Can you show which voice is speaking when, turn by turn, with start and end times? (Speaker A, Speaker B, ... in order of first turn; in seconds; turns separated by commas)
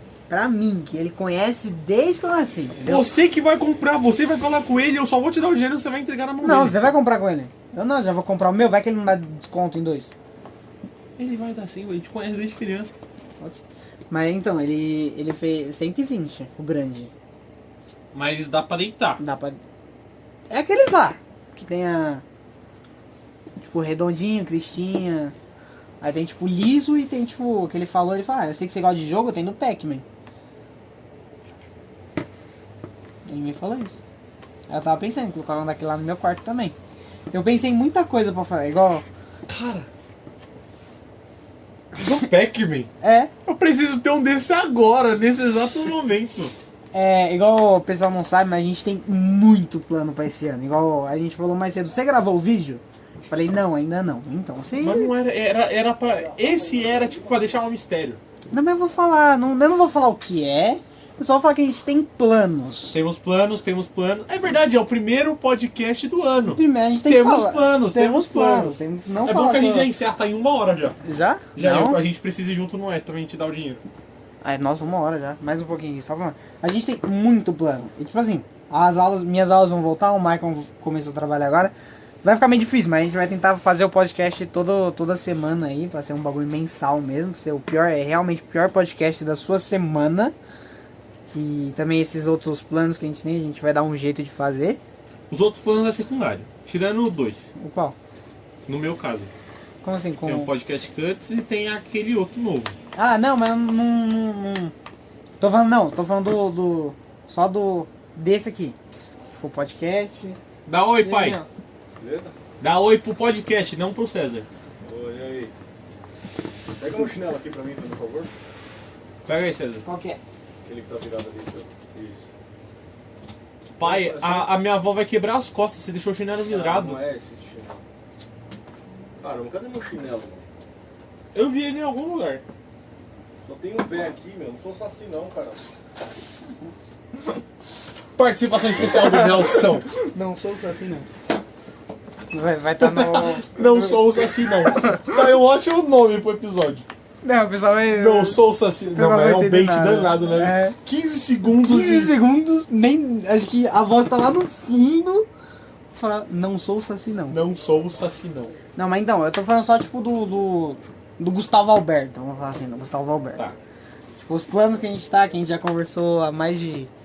Speaker A: 0.3-3.1, Speaker B: 2.8-6.9, Speaker A: 6.4-10.1, Speaker B: 11.2-12.9, Speaker A: 13.4-17.1, Speaker B: 18.1-19.2, Speaker A: 19.2-19.6, Speaker A: 20.5-22.2, Speaker A: 23.6-25.3, Speaker A: 26.0-30.0, Speaker A: 33.2-34.0, Speaker A: 34.7-36.7, Speaker A: 37.3-39.0, Speaker B: 39.5-39.9, Speaker B: 42.0-42.9, Speaker A: 43.0-43.3, Speaker B: 43.4-46.5, Speaker A: 46.9-55.1, Speaker B: 54.8-58.2, Speaker A: 58.5-63.0, Speaker B: 62.9-71.0, Speaker A: 66.5-69.9, Speaker A: 71.0-72.0, Speaker B: 71.5-73.8, Speaker A: 74.4-90.3, Speaker A: 91.3-94.8, Speaker B: 95.3-97.5, Speaker A: 97.5-97.9, Speaker B: 98.7-99.3, Speaker A: 99.8-100.5, Speaker B: 100.2-102.8, Speaker A: 102.9-104.7, Speaker A: 105.4-108.8, Speaker A: 109.3-110.4, Speaker B: 110.7-111.4, Speaker A: 111.0-111.6, Speaker C: 112.0-112.3, Speaker B: 112.6-114.5, Speaker C: 114.8-115.5, Speaker C: 116.8-118.3, Speaker B: 119.2-119.8, Speaker A: 119.8-120.2, Speaker C: 120.6-122.3, Speaker B: 123.8-127.0, Speaker C: 123.8-124.5, Speaker C: 126.5-127.8, Speaker C: 129.2-130.5, Speaker B: 131.3-132.4, Speaker C: 133.4-135.6, Speaker B: 138.2-139.9, Speaker A: 138.8-141.1, Speaker A: 142.3-145.1, Speaker B: 142.8-146.9, Speaker A: 147.2-148.4, Speaker B: 147.9-152.2, Speaker A: 148.9-150.8, Speaker A: 151.6-155.3, Speaker A: 155.9-157.4, Speaker B: 157.3-158.5, Speaker A: 158.8-163.4, Speaker A: 164.2-166.9